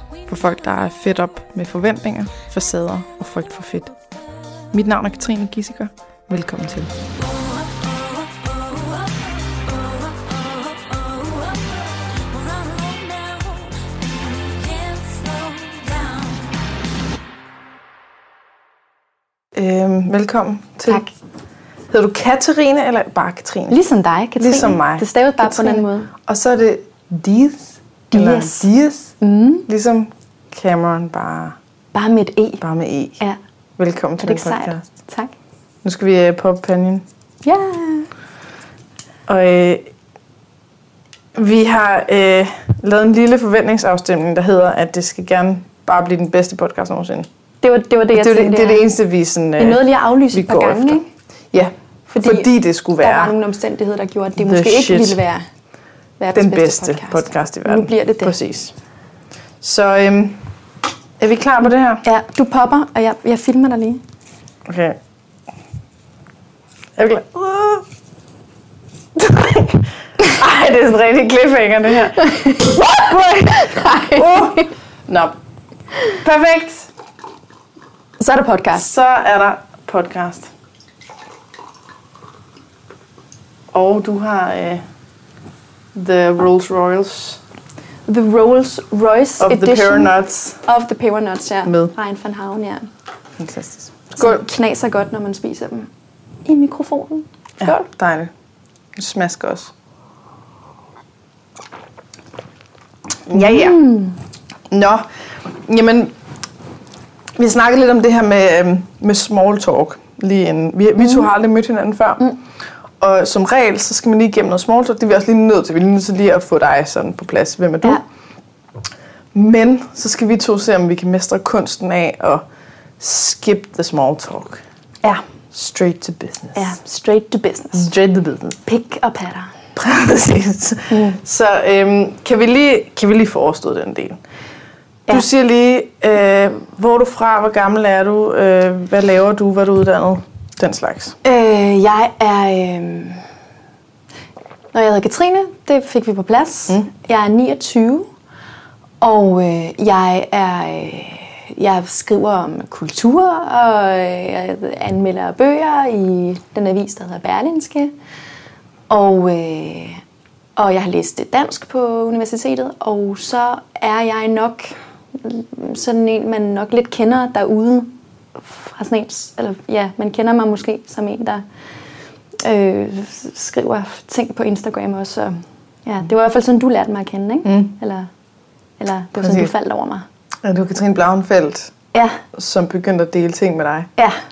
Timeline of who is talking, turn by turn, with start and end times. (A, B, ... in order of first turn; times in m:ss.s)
0:00.3-0:03.9 A
0:04.7-0:06.9 A
0:14.9-0:16.2 B
0:19.5-0:21.0 A
0:21.9-0:23.8 A
0:23.7-0:26.1 B
0:24.4-0:29.1 A
0:28.1-0:28.7 B
0:29.2-0:29.7 B
0:29.7-0:31.6 A
0:31.9-0:32.6 B
0:32.6-0:33.2 A
0:33.8-0:34.8 A
0:34.2-0:35.3 B
0:35.8-0:37.0 A
0:37.4-0:38.1 B
0:39.3-0:39.9 A
0:41.3-0:47.3 A
0:47.6-0:48.8 B
0:48.1-0:51.0 A
0:49.6-0:51.1 B
0:51.5-0:53.3 A
0:52.1-0:55.4 B
0:54.4-0:55.2 A
0:56.2-0:58.4 B
0:56.3-0:58.7 A
0:59.6-1:00.4 A
1:01.2-1:02.0 A
1:02.0-1:04.0 B
1:04.6-1:05.0 A
1:07.0-1:07.8 A
1:09.2-1:15.3 A
1:12.2-1:14.7 B
1:16.2-1:16.9 A
1:18.2-1:18.8 B
1:18.7-1:20.5 A
1:23.7-1:24.8 A
1:25.9-1:27.4 A
1:28.1-1:32.9 B
1:29.4-1:30.6 A
1:31.6-1:31.9 A
1:33.4-1:34.4 A
1:34.1-1:35.9 B
1:36.4-1:37.9 B
1:37.6-1:38.3 A
1:39.0-1:39.7 A
1:43.3-1:43.8 A
1:43.3-1:44.2 B
1:44.7-1:45.0 A
1:45.6-1:46.1 A
1:47.4-1:52.3 A
1:51.0-1:51.3 B
1:53.0-1:58.0 A
1:59.3-2:02.4 A
2:03.0-2:04.6 A
2:05.5-2:06.7 A
2:06.5-2:07.9 B
2:07.7-2:08.6 A
2:08.6-2:09.5 B
2:09.7-2:14.2 A
2:10.9-2:11.2 B
2:15.1-2:21.2 A
2:21.2-2:23.2 B
2:24.7-2:28.1 B
2:29.0-2:37.9 B
2:38.9-2:40.0 B
2:40.6-2:51.4 B
2:52.4-2:58.1 B
2:57.4-2:57.7 A
2:58.8-3:00.0 B
2:59.2-2:59.5 A
3:00.4-3:01.7 A
3:01.9-3:02.2 B
3:02.3-3:03.9 A